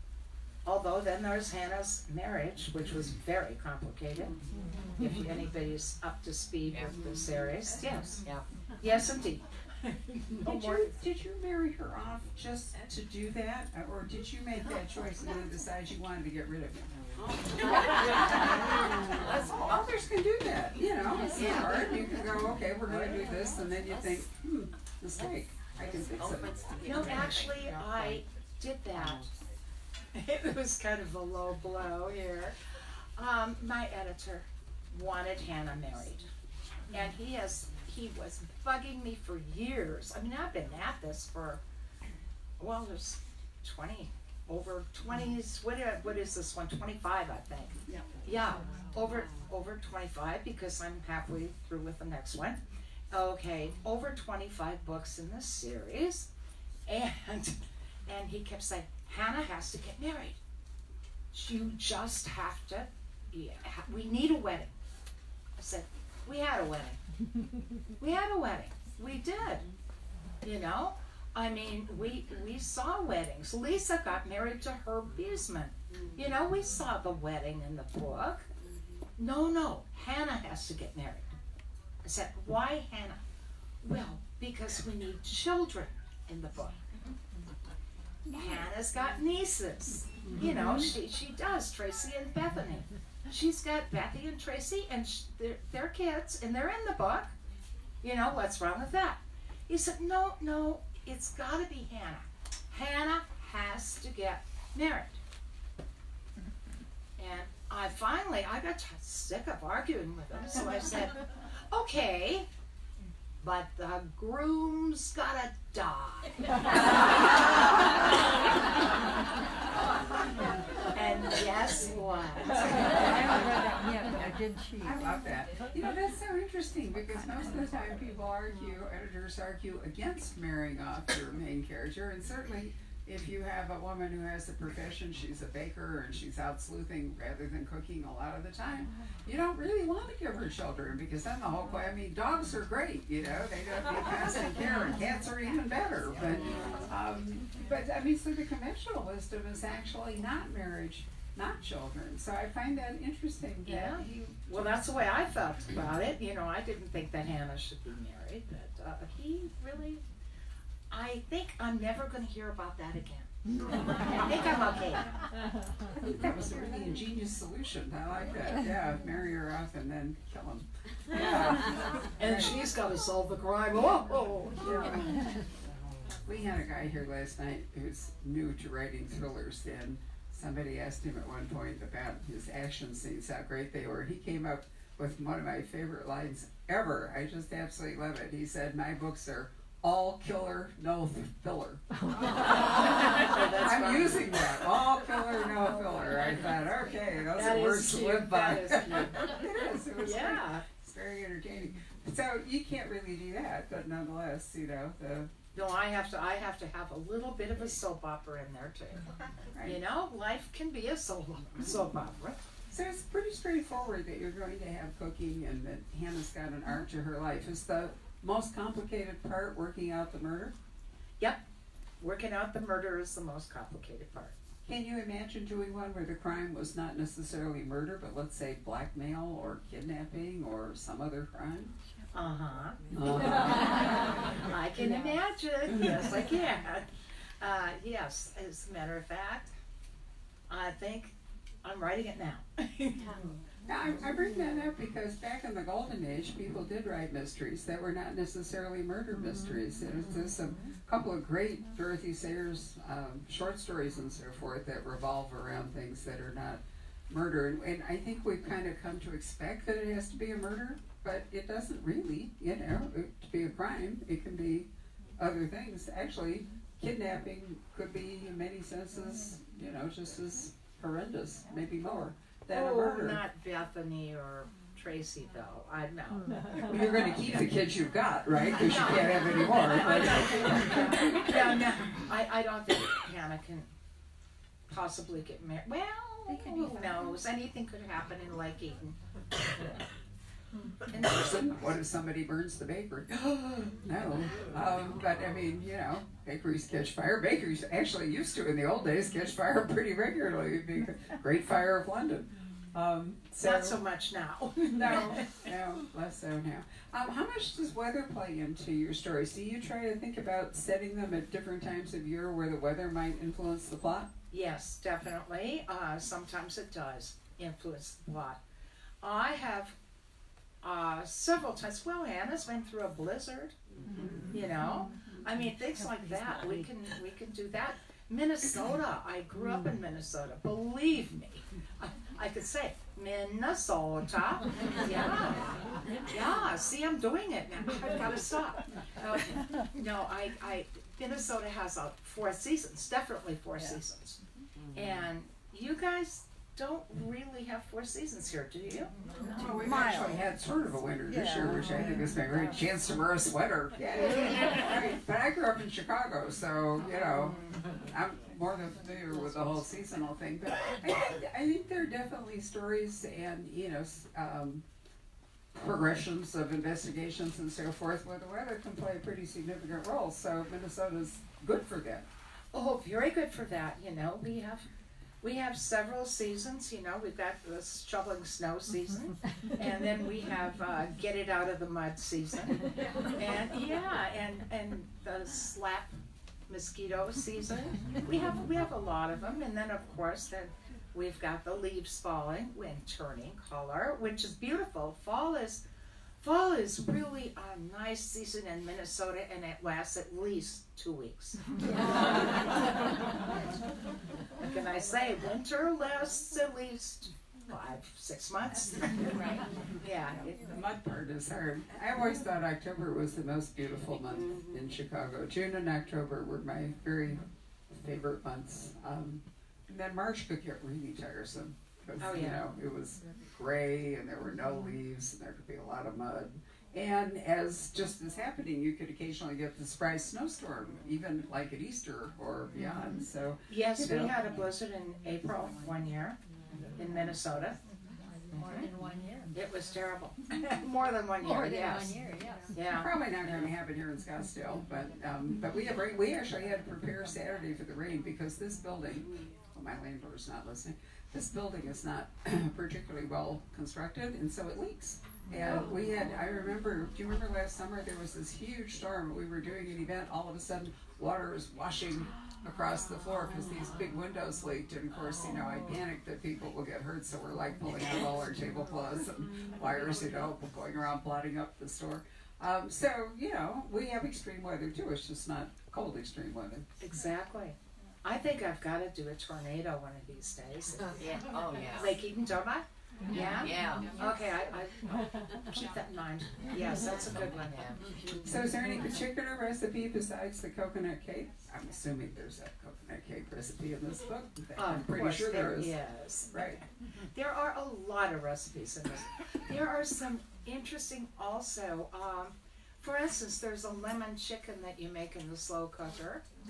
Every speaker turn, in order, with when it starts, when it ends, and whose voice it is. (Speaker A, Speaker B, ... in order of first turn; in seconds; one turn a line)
Speaker A: 0.6-4.4
Speaker A: 5.0-8.2
Speaker A: 8.8-10.9
Speaker B: 10.4-16.9
Speaker B: 18.4-27.0
Speaker A: 26.8-29.3
Speaker A: 30.1-32.5
Speaker A: 33.1-36.3
Speaker A: 36.9-41.6
Speaker A: 42.6-52.6
Speaker A: 53.1-56.3
Speaker A: 56.9-60.4
Speaker A: 61.3-64.7
Speaker A: 65.6-67.0
Speaker A: 68.0-69.7
Speaker A: 70.4-78.5
Speaker A: 79.2-81.3
Speaker A: 82.0-83.2
Speaker A: 83.8-86.8
Speaker A: 88.3-97.3
Speaker A: 98.0-105.2
Speaker A: 107.2-112.5
Speaker A: 113.4-116.8
Speaker A: 120.9-123.6
Speaker B: 124.8-154.6
Speaker A: 153.7-160.0
Speaker A: 160.9-163.3
Speaker A: 164.0-165.3
Speaker B: 165.9-172.6
Speaker A: 172.2-175.1
Speaker B: 174.6-175.0
Speaker B: 176.2-192.4
Speaker A: 192.9-194.5
Speaker B: 193.1-205.3
Speaker A: 197.3-199.2
Speaker A: 200.0-200.6
Speaker A: 205.5-209.1
Speaker B: 209.5-209.8
Speaker A: 209.6-212.4
Speaker B: 212.7-220.5
Speaker A: 222.0-224.3
Speaker B: 224.6-231.7
Speaker A: 232.1-232.8
Speaker B: 232.9-233.9
Speaker A: 234.4-236.8
Speaker B: 235.7-235.9
Speaker A: 237.4-239.5
Speaker A: 240.5-243.2
Speaker B: 243.7-273.2
Speaker A: 272.5-276.4
Speaker B: 276.7-281.3
Speaker A: 278.6-283.7
Speaker A: 284.7-288.9
Speaker A: 290.9-291.7
Speaker B: 290.9-303.8
Speaker A: 303.4-305.4
Speaker B: 304.7-314.1
Speaker A: 314.3-318.4
Speaker A: 319.0-319.8
Speaker A: 320.6-323.5
Speaker A: 324.3-335.5
Speaker A: 336.1-344.2
Speaker A: 344.7-348.9
Speaker B: 349.3-364.6
Speaker B: 365.5-372.1
Speaker A: 372.5-374.6
Speaker A: 375.2-385.9
Speaker A: 386.5-395.6
Speaker A: 396.2-401.6
Speaker A: 404.4-410.4
Speaker B: 410.5-434.1
Speaker A: 422.0-422.4
Speaker A: 433.5-436.2
Speaker A: 436.8-437.6
Speaker A: 438.3-438.7
Speaker C: 438.4-439.3
Speaker A: 439.3-441.9
Speaker C: 441.2-442.5
Speaker A: 442.5-442.9
Speaker B: 442.7-476.6
Speaker A: 476.8-481.1
Speaker A: 481.7-487.8
Speaker B: 483.1-483.5
Speaker B: 488.2-495.7
Speaker A: 494.6-496.4
Speaker B: 496.3-496.6
Speaker A: 497.1-506.2